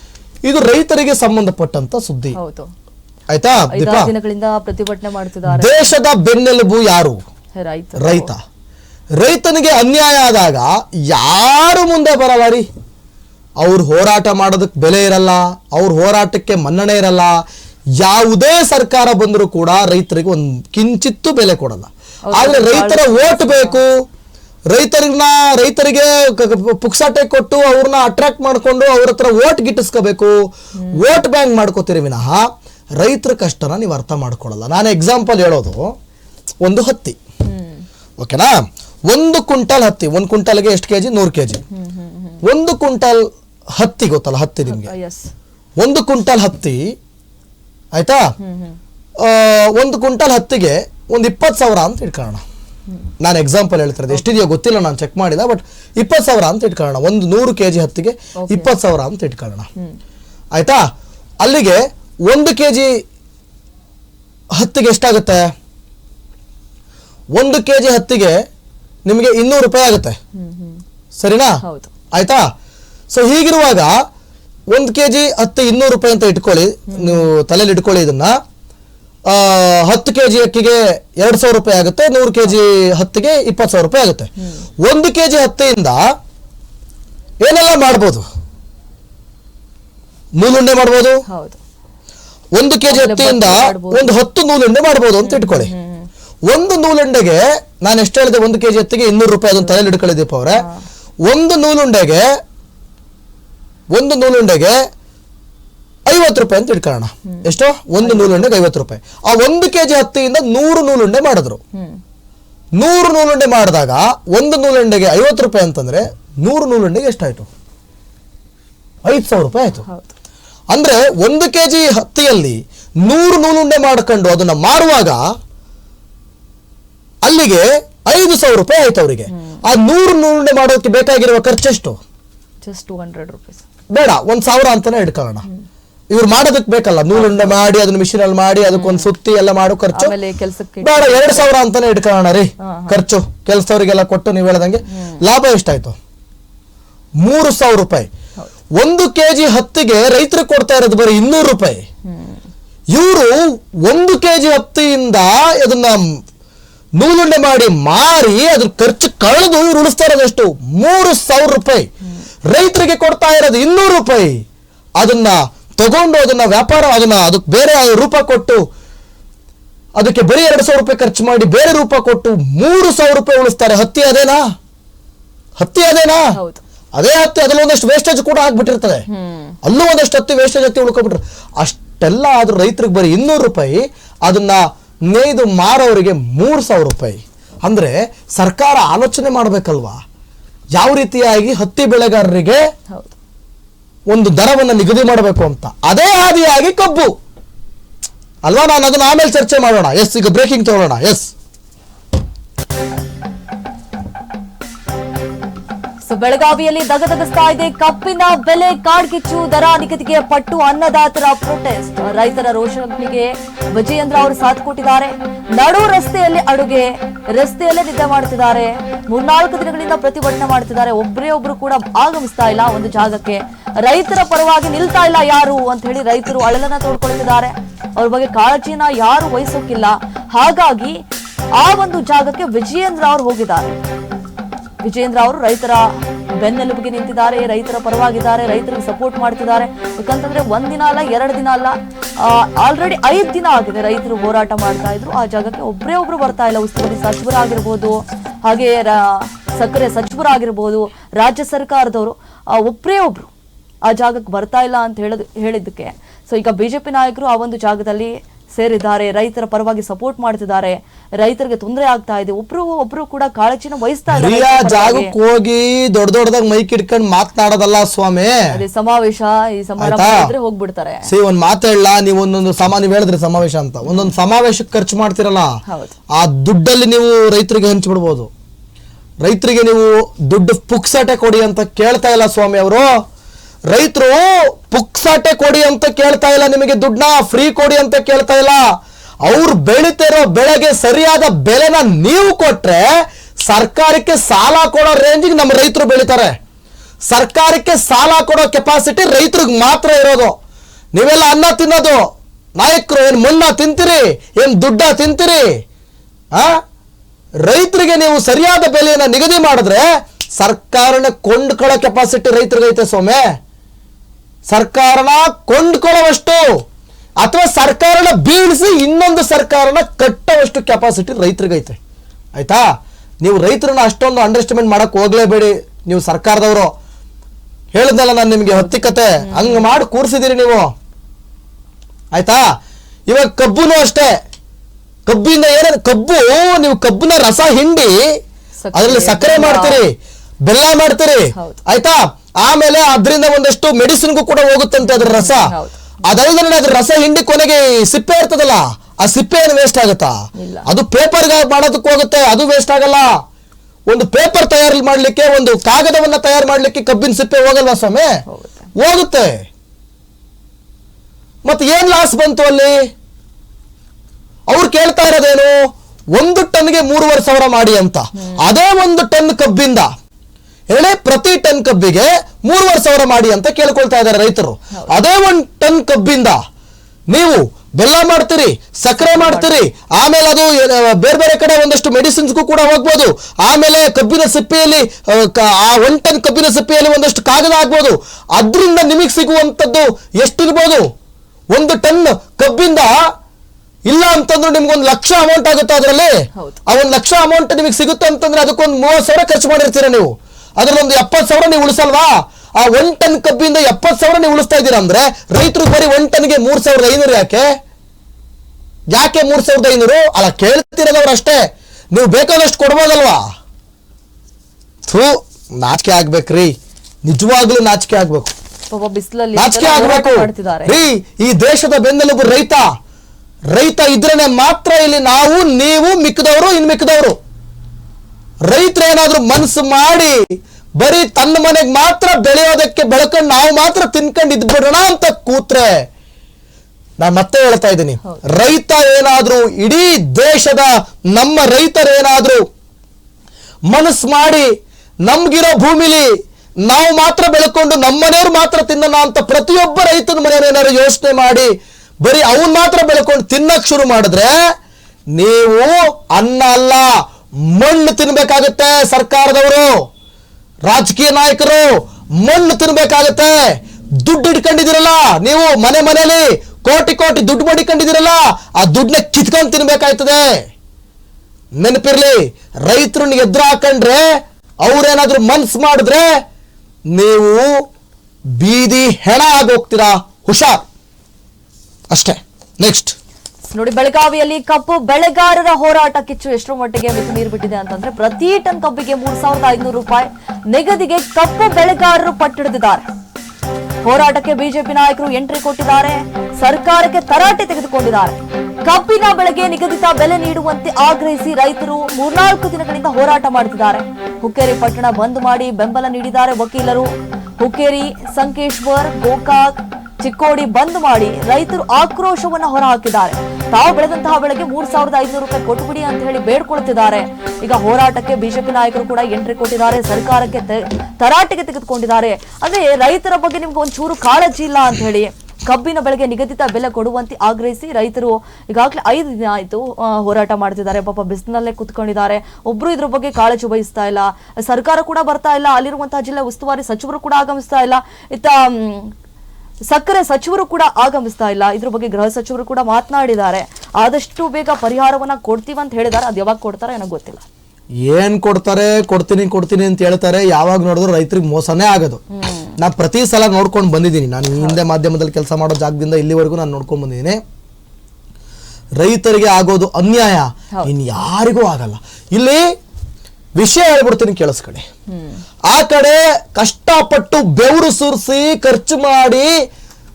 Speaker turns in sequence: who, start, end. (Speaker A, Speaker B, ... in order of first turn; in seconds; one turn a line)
Speaker A: 0.5-2.4
Speaker B: 2.3-2.7
Speaker A: 3.3-4.1
Speaker B: 3.7-5.9
Speaker A: 5.5-7.2
Speaker B: 7.5-8.3
Speaker A: 8.0-8.4
Speaker A: 9.2-12.7
Speaker A: 13.6-17.4
Speaker A: 18.0-23.9
Speaker B: 22.3-23.8
Speaker A: 24.7-30.3
Speaker A: 30.9-32.5
Speaker A: 33.0-35.9
Speaker A: 36.6-37.2
Speaker B: 37.5-37.8
Speaker A: 38.2-38.5
Speaker A: 39.1-41.6
Speaker B: 41.7-42.4
Speaker A: 42.4-43.2
Speaker A: 43.8-44.9
Speaker B: 44.7-45.3
Speaker A: 45.8-46.8
Speaker A: 47.9-48.2
Speaker B: 48.4-48.8
Speaker A: 49.2-52.4
Speaker A: 53.2-59.7
Speaker B: 58.4-58.7
Speaker A: 60.5-60.8
Speaker A: 61.4-62.9
Speaker A: 64.6-65.5
Speaker A: 67.3-68.3
Speaker A: 69.0-70.2
Speaker B: 70.3-70.8
Speaker A: 71.2-71.6
Speaker B: 71.6-71.9
Speaker A: 72.1-72.4
Speaker A: 73.1-74.0
Speaker A: 74.7-78.3
Speaker B: 76.9-77.3
Speaker A: 79.3-84.3
Speaker A: 84.8-86.0
Speaker A: 87.4-88.2
Speaker A: 90.4-91.2
Speaker B: 91.3-91.6
Speaker A: 92.5-95.7
Speaker B: 92.9-94.1
Speaker B: 95.2-96.1
Speaker A: 96.5-100.6
Speaker B: 100.6-100.8
Speaker A: 101.3-102.3
Speaker A: 103.9-104.8
Speaker A: 106.1-111.6
Speaker B: 108.0-108.5
Speaker B: 111.7-112.0
Speaker A: 112.8-117.5
Speaker A: 119.0-119.8
Speaker B: 119.9-120.1
Speaker A: 120.7-125.2
Speaker A: 127.2-132.0
Speaker B: 129.3-129.6
Speaker B: 132.6-133.6
Speaker A: 133.9-135.4
Speaker A: 136.1-140.1
Speaker B: 137.1-137.6
Speaker B: 138.7-139.1
Speaker B: 139.9-141.5
Speaker A: 140.8-146.0
Speaker B: 142.6-143.0
Speaker B: 144.9-145.2
Speaker A: 147.2-148.1
Speaker A: 148.8-151.8
Speaker B: 152.1-152.4
Speaker A: 152.9-156.0
Speaker A: 157.0-161.9
Speaker A: 162.5-164.4
Speaker A: 165.0-168.6
Speaker A: 169.9-174.4
Speaker A: 175.6-176.2
Speaker B: 176.3-176.6
Speaker A: 176.9-179.1
Speaker B: 179.1-179.6
Speaker A: 179.6-190.0
Speaker A: 190.8-192.6
Speaker A: 194.1-197.1
Speaker A: 198.4-201.3
Speaker B: 206.1-231.0
Speaker B: 231.6-233.8
Speaker B: 234.8-253.3
Speaker B: 253.8-265.1
Speaker A: 264.1-268.3
Speaker B: 268.5-271.1
Speaker A: 269.8-270.3
Speaker A: 271.1-275.5
Speaker B: 273.9-274.1
Speaker B: 275.7-275.9
Speaker A: 276.2-278.3
Speaker A: 279.2-282.9
Speaker A: 283.7-288.6
Speaker A: 289.2-292.9
Speaker A: 293.5-296.3
Speaker A: 297.1-300.4
Speaker A: 300.9-302.1
Speaker A: 302.6-305.6
Speaker A: 306.3-306.6
Speaker A: 307.4-309.9
Speaker A: 310.4-313.2
Speaker A: 314.5-316.4
Speaker A: 317.2-321.8
Speaker A: 322.4-322.6
Speaker A: 323.2-326.7
Speaker A: 327.7-330.7
Speaker B: 328.5-329.7
Speaker A: 332.1-332.4
Speaker A: 333.1-334.1
Speaker A: 335.1-338.1
Speaker B: 338.6-339.8
Speaker A: 338.7-339.9
Speaker A: 340.5-345.5
Speaker B: 344.9-345.8
Speaker A: 346.0-353.1
Speaker B: 350.4-350.6
Speaker A: 353.9-358.1
Speaker B: 358.3-358.7
Speaker A: 358.8-359.5
Speaker A: 361.4-362.8
Speaker A: 364.5-365.6
Speaker A: 366.1-369.9
Speaker B: 368.1-368.4
Speaker A: 370.7-376.4
Speaker A: 377.1-390.9
Speaker B: 379.1-379.5
Speaker A: 391.5-392.9
Speaker A: 393.9-396.1
Speaker A: 396.7-407.4
Speaker A: 408.9-411.4
Speaker A: 411.9-413.2
Speaker A: 414.9-416.5
Speaker A: 417.0-418.3
Speaker B: 418.7-420.8
Speaker A: 419.4-422.6
Speaker A: 423.5-427.2
Speaker A: 428.4-430.2
Speaker A: 430.8-435.7
Speaker A: 437.0-442.4
Speaker A: 443.7-444.5
Speaker A: 445.1-446.1
Speaker A: 446.6-451.5
Speaker A: 452.0-454.3
Speaker A: 455.2-456.9
Speaker A: 457.5-459.7
Speaker A: 460.7-470.4
Speaker A: 471.6-474.0
Speaker A: 474.6-476.1
Speaker A: 476.9-477.5
Speaker A: 478.4-480.6
Speaker A: 481.9-482.9
Speaker B: 483.5-492.8
Speaker B: 493.8-538.9
Speaker B: 539.7-547.2
Speaker A: 547.8-552.0
Speaker B: 552.1-552.5
Speaker A: 552.6-557.2
Speaker A: 558.8-562.4
Speaker A: 563.4-564.6
Speaker A: 565.5-569.3